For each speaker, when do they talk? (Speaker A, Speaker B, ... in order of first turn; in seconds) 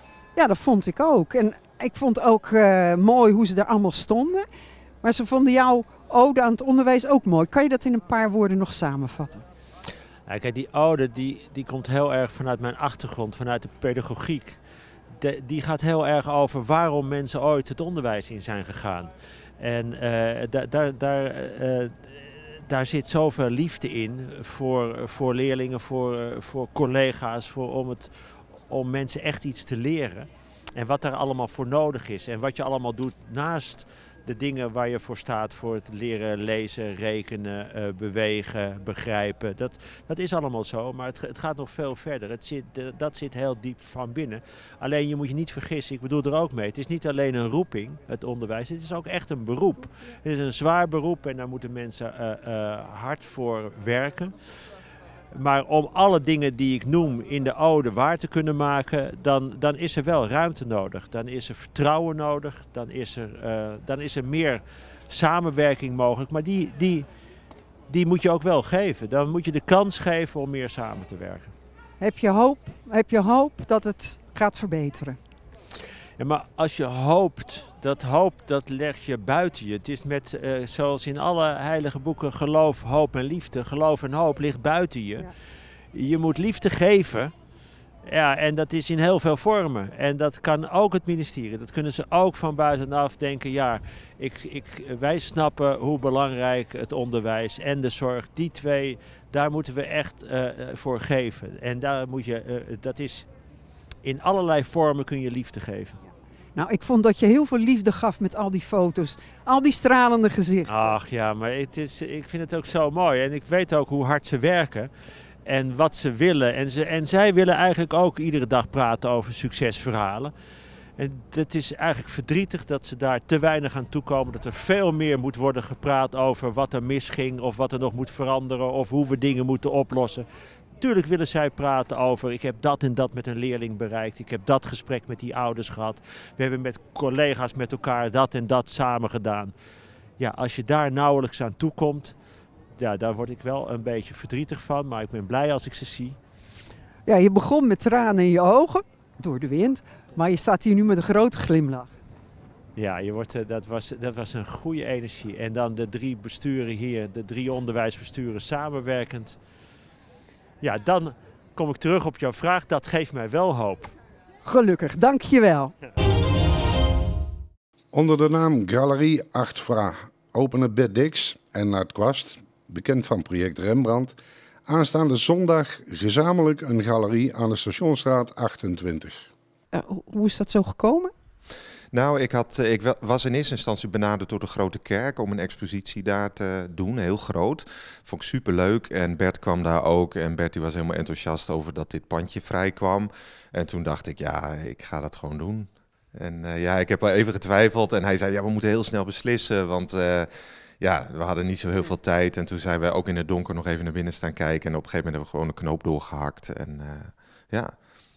Speaker A: 0.3-4.5, 5.0-9.4, 72.0-75.2, 106.5-110.8, 147.1-151.9, 164.4-165.7, 179.7-181.1
Speaker B: 10.3-14.6, 15.2-54.6, 55.3-67.0, 67.9-71.5, 76.2-85.3, 85.9-87.3, 88.0-103.3, 104.0-106.0, 110.7-114.9, 115.5-120.3, 121.0-130.2, 130.8-139.5, 140.2-142.2, 142.7-146.2, 152.8-159.4, 160.6-163.9
Speaker C: 167.9-179.2
Speaker D: 181.9-207.8